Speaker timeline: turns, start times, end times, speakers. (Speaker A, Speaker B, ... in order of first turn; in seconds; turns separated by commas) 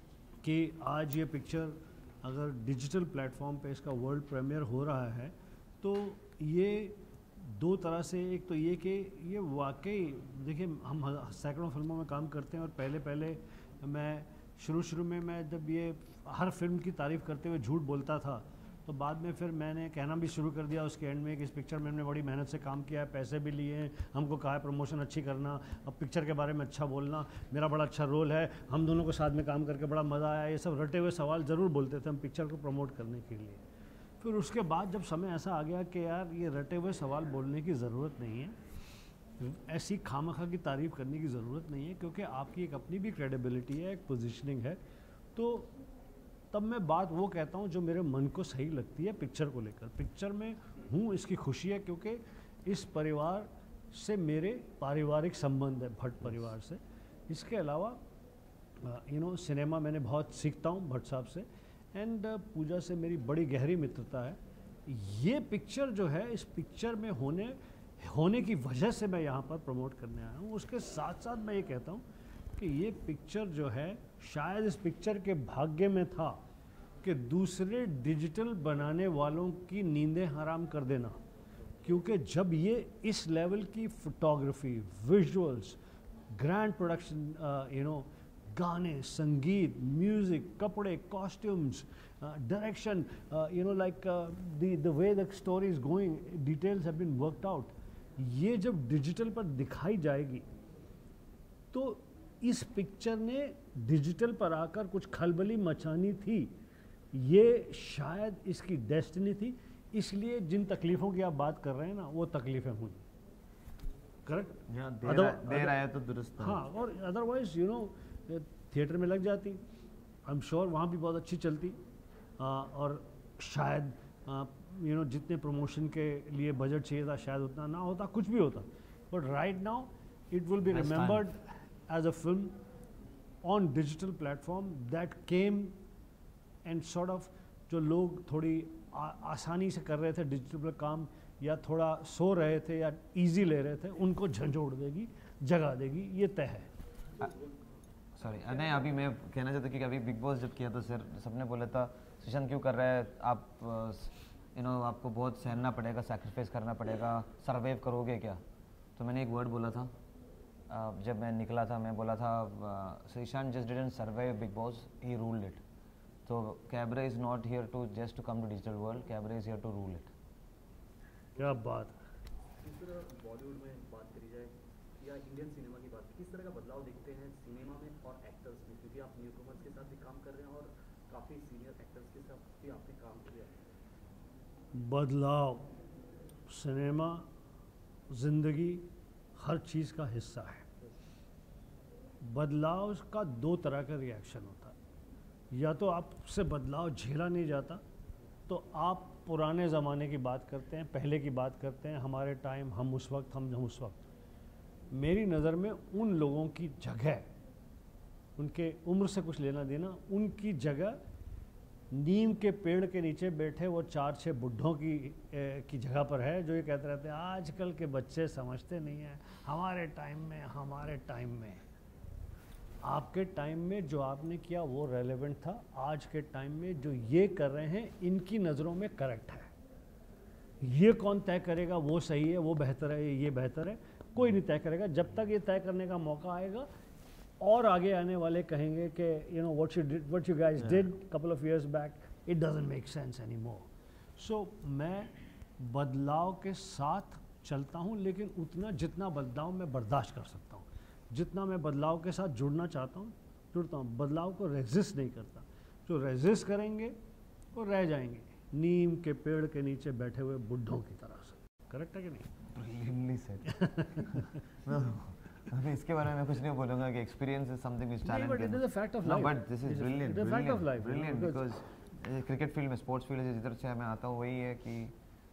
Speaker A: 0.4-33.6, Speaker A: 34.2-38.6, Speaker A: 39.4-44.8, Speaker A: 45.3-45.7, Speaker A: 46.5-58.0, Speaker A: 58.8-76.4, Speaker A: 77.0-81.2, Speaker A: 81.8-85.8, Speaker A: 86.3-100.5, Speaker A: 101.7-106.5, Speaker A: 107.1-113.0, Speaker A: 114.2-115.8, Speaker B: 114.7-116.6, Speaker A: 116.4-119.6, Speaker A: 120.2-121.8, Speaker A: 122.4-132.6, Speaker B: 130.6-131.2, Speaker A: 133.4-135.8, Speaker A: 136.6-146.7, Speaker C: 147.1-147.6, Speaker B: 148.2-158.4, Speaker C: 148.5-148.8, Speaker B: 159.0-159.9, Speaker B: 160.7-165.6, Speaker B: 166.2-170.1, Speaker A: 171.3-172.0, Speaker C: 171.4-171.6, Speaker C: 172.6-183.5, Speaker A: 184.7-185.7, Speaker A: 186.5-187.3, Speaker A: 188.1-190.6, Speaker A: 192.2-194.7, Speaker A: 195.5-197.8, Speaker A: 198.5-204.1, Speaker A: 204.9-207.3, Speaker A: 208.3-211.0, Speaker A: 211.9-221.6, Speaker A: 222.8-229.5, Speaker A: 230.6-236.7, Speaker A: 237.4-256.9, Speaker B: 240.6-240.8, Speaker A: 257.5-262.3, Speaker B: 262.5-263.6, Speaker A: 263.6-264.2, Speaker B: 264.6-274.9, Speaker A: 268.1-271.4